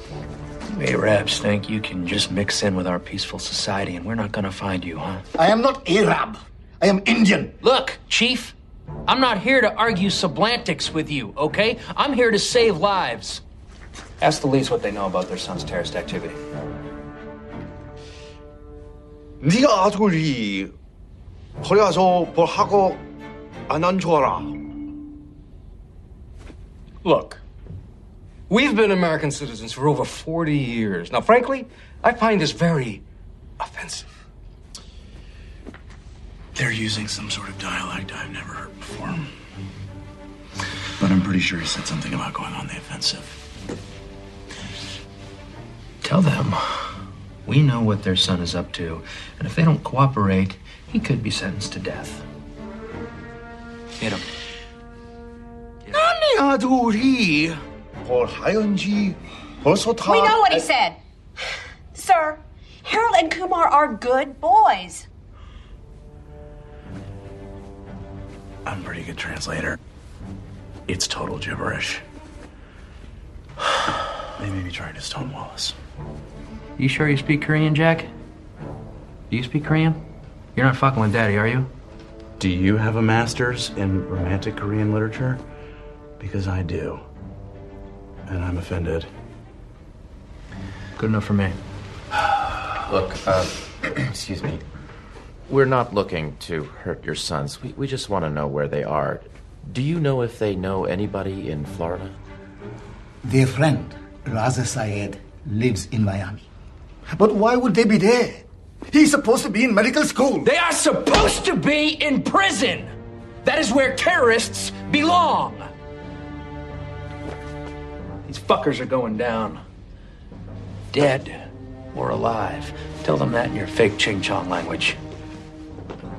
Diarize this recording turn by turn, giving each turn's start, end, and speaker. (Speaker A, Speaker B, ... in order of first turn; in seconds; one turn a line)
Speaker A: 0.7-5.2
Speaker B: 5.3-7.5
Speaker A: 7.6-8.5
Speaker A: 9.1-13.4
Speaker A: 14.2-16.4
Speaker C: 19.4-20.7
Speaker C: 21.6-23.0
Speaker C: 23.7-24.6
Speaker D: 27.0-27.4
Speaker D: 28.5-33.0
Speaker D: 33.6-34.0
Speaker E: 36.5-39.3
Speaker E: 41.0-43.4
Speaker A: 46.0-46.9
Speaker A: 47.5-52.2
Speaker A: 54.0-54.3
Speaker C: 55.9-57.5
Speaker C: 58.1-60.6
Speaker F: 60.1-61.0
Speaker F: 61.9-65.0
Speaker E: 68.7-69.8
Speaker E: 70.9-72.0
Speaker E: 74.4-75.7
Speaker A: 76.8-78.1
Speaker A: 79.3-80.0
Speaker A: 80.5-81.7
Speaker E: 82.4-85.4
Speaker E: 86.2-87.0
Speaker E: 88.3-89.1
Speaker A: 91.0-91.6
Speaker G: 92.8-94.6
Speaker G: 95.5-102.1
Speaker B: 103.2-106.5
Speaker B: 107.1-110.5
Speaker A: 110.4-112.9
Speaker A: 113.4-115.7
Speaker A: 118.2-119.6
Speaker A: 120.9-125.0